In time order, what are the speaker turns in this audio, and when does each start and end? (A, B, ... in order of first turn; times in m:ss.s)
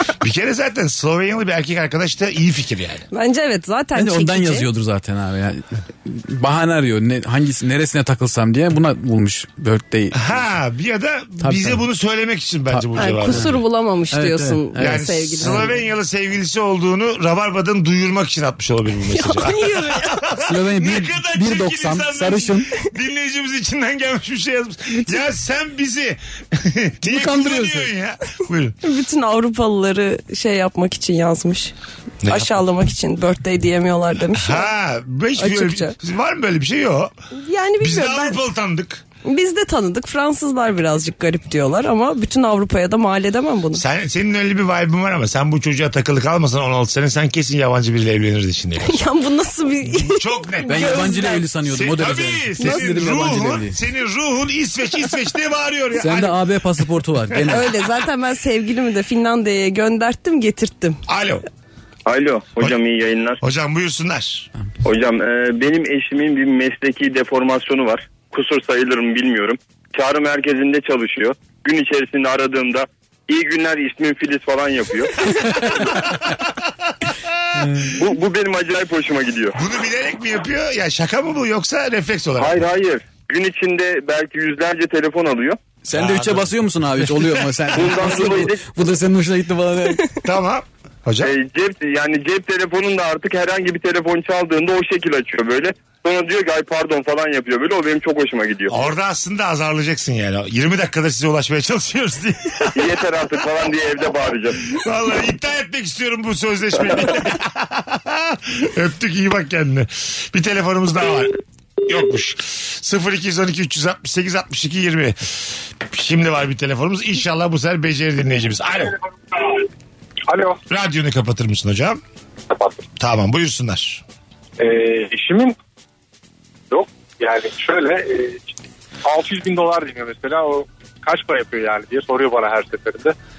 0:00.2-0:03.0 A
0:03.1-0:04.7 B
0:03.9-0:10.2 C
0:10.1-0:13.6 A
0:11.4-0:11.8 C
0:12.7-0:13.5 C
0:13.0-0:15.7 B
0:14.1-0:15.8 C
0:14.8-0:28.8 A
0:19.1-0:20.2 B
0:20.4-0:22.7 C
0:27.0-0:27.9 C
0:28.8-0:31.7 B
0:32.2-0:32.6 A
0:32.2-0:34.7 B
0:34.3-0:37.1 A
0:35.4-0:35.9 B
0:37.3-0:38.4 B
0:37.8-0:39.0 A
0:39.2-0:43.8 B
0:43.7-0:49.0 A
0:48.8-0:51.4 B
0:49.9-0:56.5 A
0:50.6-0:53.8 C
0:52.6-0:52.8 B
0:56.0-0:57.7 C
0:57.5-1:01.0 B
1:01.1-1:01.4 A
1:02.0-1:03.4 D
1:03.4-1:04.5 A
1:04.8-1:15.2 D
1:17.6-1:17.9 C
1:17.9-1:19.6 D
1:19.5-1:22.6 A
1:22.4-1:25.6 D
1:25.8-1:30.2 C
1:25.9-1:26.5 A
1:27.1-1:28.2 A
1:27.7-1:28.6 D
1:30.2-1:31.3 A
1:31.2-1:38.8 D
1:38.7-1:43.0 A
1:42.7-1:44.6 D
1:44.6-1:51.4 A
1:51.9-1:55.3 A
1:55.8-1:59.0 A
1:59.3-1:59.6 E
2:00.3-2:00.6 E
2:00.7-2:02.0 A
2:02.5-2:02.8 E
2:03.0-2:04.0 A
2:04.6-2:05.6 E
2:06.7-2:08.5 E
2:09.0-2:13.1 E